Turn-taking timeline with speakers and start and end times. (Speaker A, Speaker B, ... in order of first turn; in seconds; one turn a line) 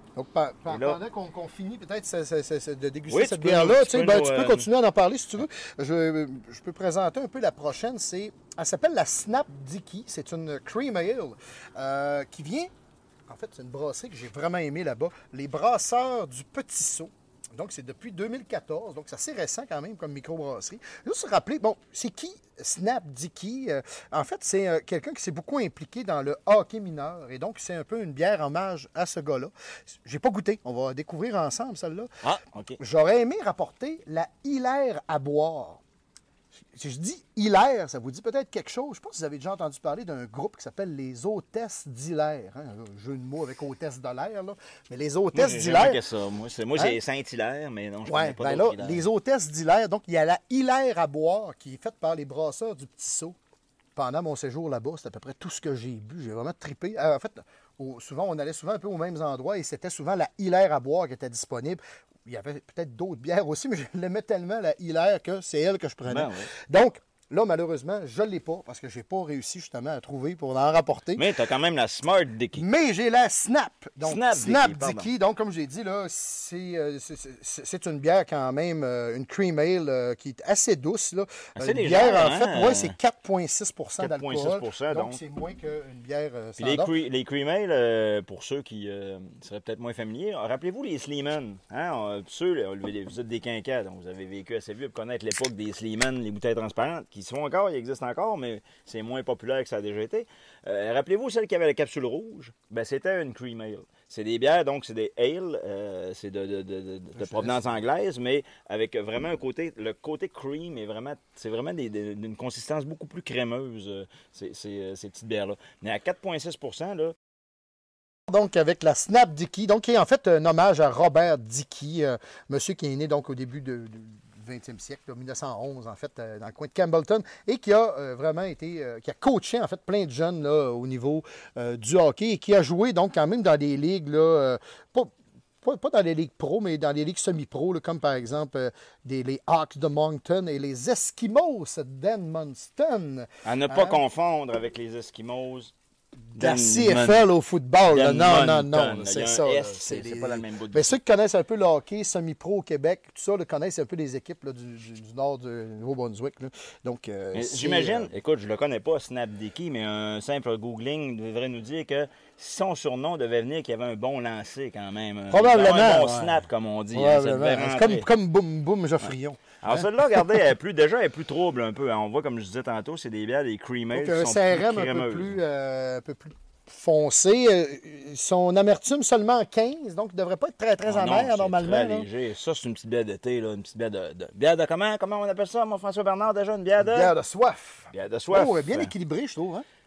Speaker A: 0.1-12.7
Speaker B: 0.7-1.0
Speaker B: 3.1-4.7
Speaker A: 13.3-29.5
Speaker A: 30.0-32.1
Speaker B: 32.2-32.8
Speaker A: 32.8-35.8
Speaker A: 36.7-46.0
Speaker B: 45.3-49.0
Speaker A: 48.1-53.4
Speaker A: 54.0-71.2
Speaker B: 66.1-66.5
Speaker B: 71.2-72.6
Speaker A: 72.5-86.9
Speaker B: 74.0-75.1
Speaker B: 81.6-82.9
Speaker B: 84.0-85.2
Speaker B: 86.6-117.1
Speaker A: 107.2-107.5
Speaker A: 118.3-144.0
Speaker B: 143.4-145.7
Speaker A: 146.3-158.1
Speaker B: 146.4-147.3
Speaker B: 147.8-151.0
Speaker B: 157.3-168.1
Speaker A: 165.3-166.4
Speaker A: 166.9-169.8
Speaker B: 169.6-175.4
Speaker A: 173.9-182.1
Speaker B: 180.8-187.1
Speaker A: 186.8-189.6
Speaker B: 187.9-188.9